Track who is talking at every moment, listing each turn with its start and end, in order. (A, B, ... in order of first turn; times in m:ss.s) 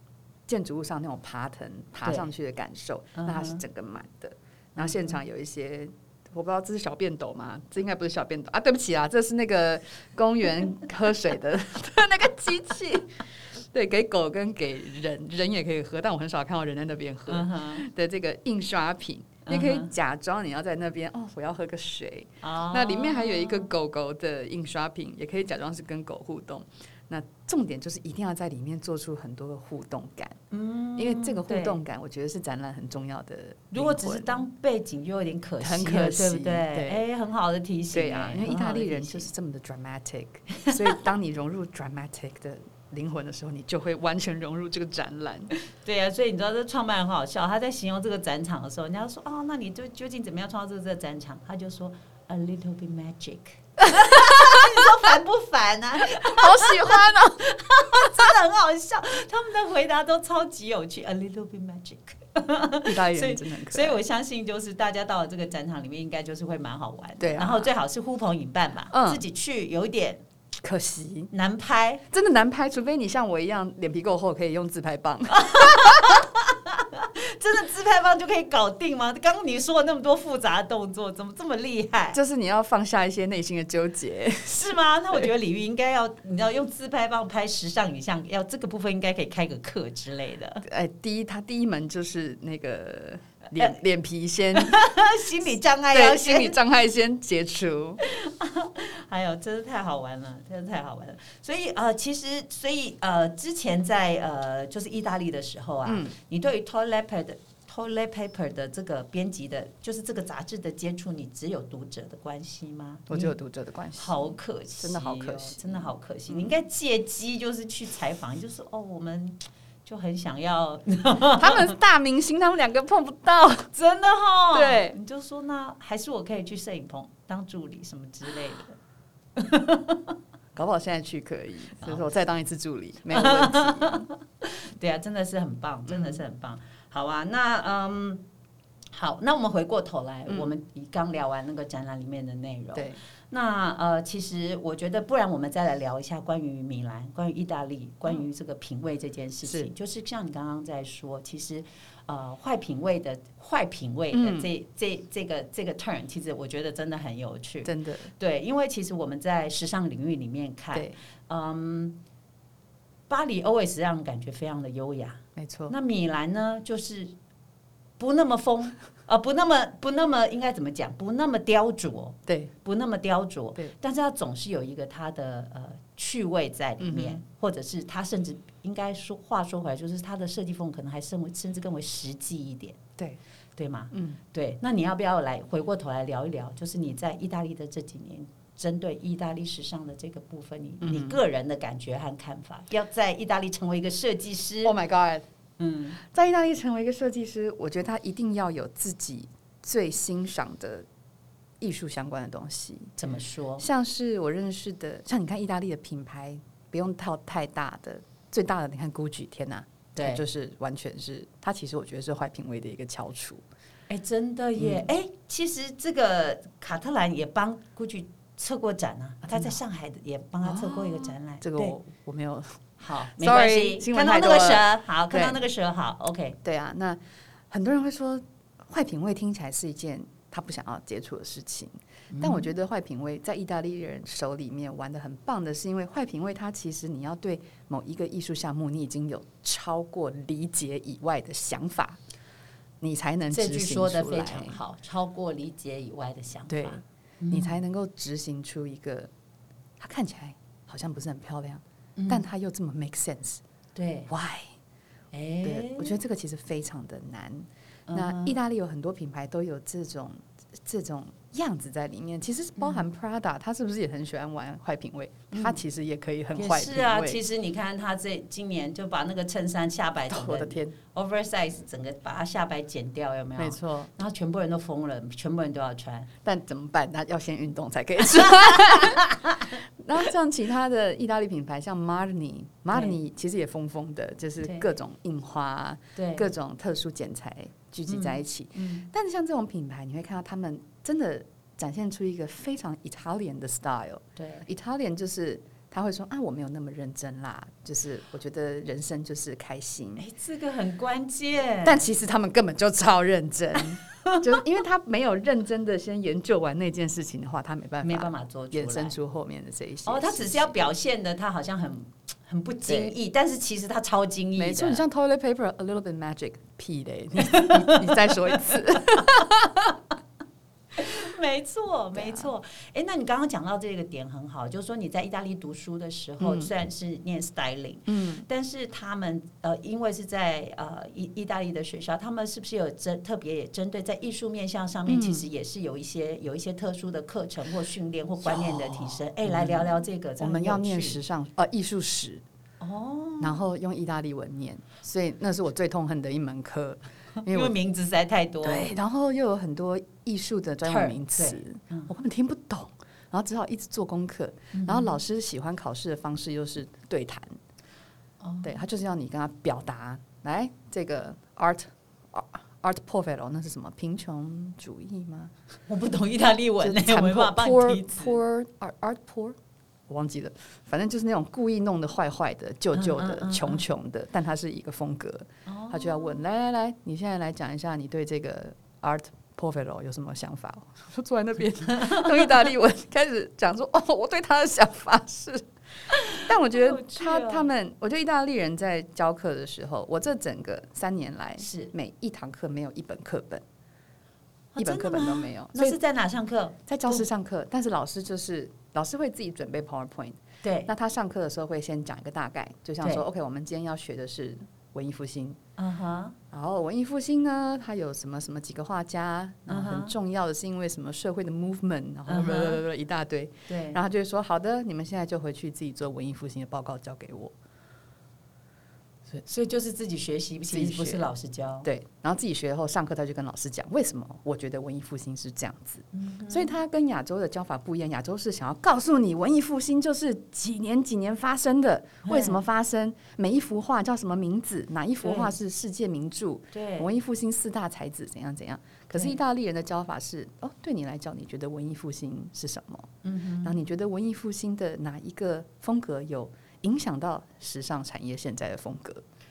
0:00.5-0:30.4 A
0:02.0-0:02.3 B
0:03.2-0:03.6 B
0:04.8-0:05.1 B
0:17.3-0:17.8 B
0:19.4-0:19.9 B
0:22.4-0:23.7 B
0:30.5-0:31.8 B
0:31.0-0:34.4 A
0:33.7-0:39.3 B
0:35.6-0:37.0 A
0:37.9-0:45.5 A
0:45.8-1:10.2 B
0:54.0-0:54.7 A
0:56.1-0:58.3 A
1:02.8-1:04.0 A
1:07.2-1:07.7 A
1:08.9-1:09.2 A
1:10.6-1:11.3 A
1:11.3-1:12.0 B
1:12.1-1:16.2 A
1:15.3-1:22.2 B
1:22.1-1:24.7 A
1:24.4-1:30.6 B
1:30.6-1:34.9 A
1:34.5-1:36.6 B
1:35.9-1:38.0 A
1:38.0-1:53.3 B
1:45.8-1:46.1 A
1:53.1-1:56.5 A
1:54.0-2:01.7 B
2:01.4-2:03.7 A
2:03.7-2:08.8 B
2:04.5-2:05.0 A
2:09.4-2:10.2 B
2:10.5-2:14.0 A
2:13.1-2:18.2 B
2:15.9-2:16.2 A
2:18.9-2:42.0 B
2:20.3-2:20.5 A
2:22.7-2:23.0 A
2:29.4-2:29.7 A
2:34.1-2:34.5 A
2:37.6-2:38.1 A
2:43.1-2:47.1 B
2:45.4-2:45.7 A
2:48.0-3:02.8 B
2:52.3-2:52.5 A
2:56.8-2:57.2 A
3:03.6-3:14.7 B
3:03.9-3:04.2 A
3:10.8-3:11.2 A
3:14.6-3:15.2 A
3:15.6-3:16.0 B
3:16.0-3:20.8 A
3:21.6-3:22.9 A
3:23.0-3:23.6 B
3:23.6-3:33.4 A
3:30.0-3:30.2 B
3:33.9-3:41.7 B
3:34.6-3:34.9 A
3:39.2-3:39.6 A
3:40.4-3:45.4 A
3:42.8-3:46.4 B
3:46.4-3:47.0 A
3:47.5-4:02.0 A
3:52.1-3:52.5 B
4:02.8-4:04.6 A
4:03.3-4:07.6 B
4:06.5-4:09.1 A
4:09.8-4:13.4 A
4:12.0-4:12.2 B
4:13.7-4:14.1 B
4:14.1-4:14.5 A
4:15.1-4:15.9 B
4:15.4-4:27.2 A
4:17.9-4:18.4 B
4:22.6-4:22.8 B
4:25.3-4:25.6 B
4:26.4-4:36.1 B
4:30.1-4:30.8 A
4:33.4-4:33.9 A
4:36.2-5:00.0 A
4:38.2-4:39.5 B
4:46.0-4:46.3 B
4:47.9-4:48.9 B
4:54.2-4:54.4 B
5:00.0-5:01.9 B
5:01.6-5:10.7 A
5:07.8-5:09.0 B
5:09.8-5:14.8 B
5:12.7-5:12.9 A
5:14.4-5:19.7 A
5:17.2-5:19.1 B
5:20.8-5:41.0 B
5:21.9-5:22.3 A
5:26.2-5:26.5 A
5:27.9-5:28.2 A
5:34.9-5:35.2 A
5:38.2-5:42.2 A
5:42.6-5:43.4 B
5:43.2-5:47.5 A
5:47.2-5:48.7 B
5:48.4-5:57.3 A
5:50.6-5:51.9 B
5:54.5-5:55.0 B
5:58.2-5:58.6 B
5:58.4-6:05.3 A
6:05.7-6:08.2 B
6:06.6-6:09.4 A
6:09.9-6:25.5 A
6:12.7-6:13.6 B
6:15.4-6:16.2 B
6:21.8-6:22.0 B
6:25.9-6:27.5 B
6:26.1-6:33.4 A
6:31.4-6:31.7 B
6:34.5-6:37.0 B
6:34.6-6:35.8 A
6:36.7-6:45.4 A
6:40.4-6:40.7 B
6:45.6-6:46.2 B
6:46.3-6:57.3 A
6:49.5-6:49.9 B
6:52.1-6:52.6 B
6:53.5-6:53.8 B
6:59.1-7:01.7 B
7:00.5-7:01.1 A
7:01.6-7:22.9 A
7:05.9-7:06.6 B
7:12.0-7:12.4 B
7:15.0-7:15.3 B
7:16.5-7:16.9 B
7:23.0-7:23.6 B
7:23.4-7:29.0 A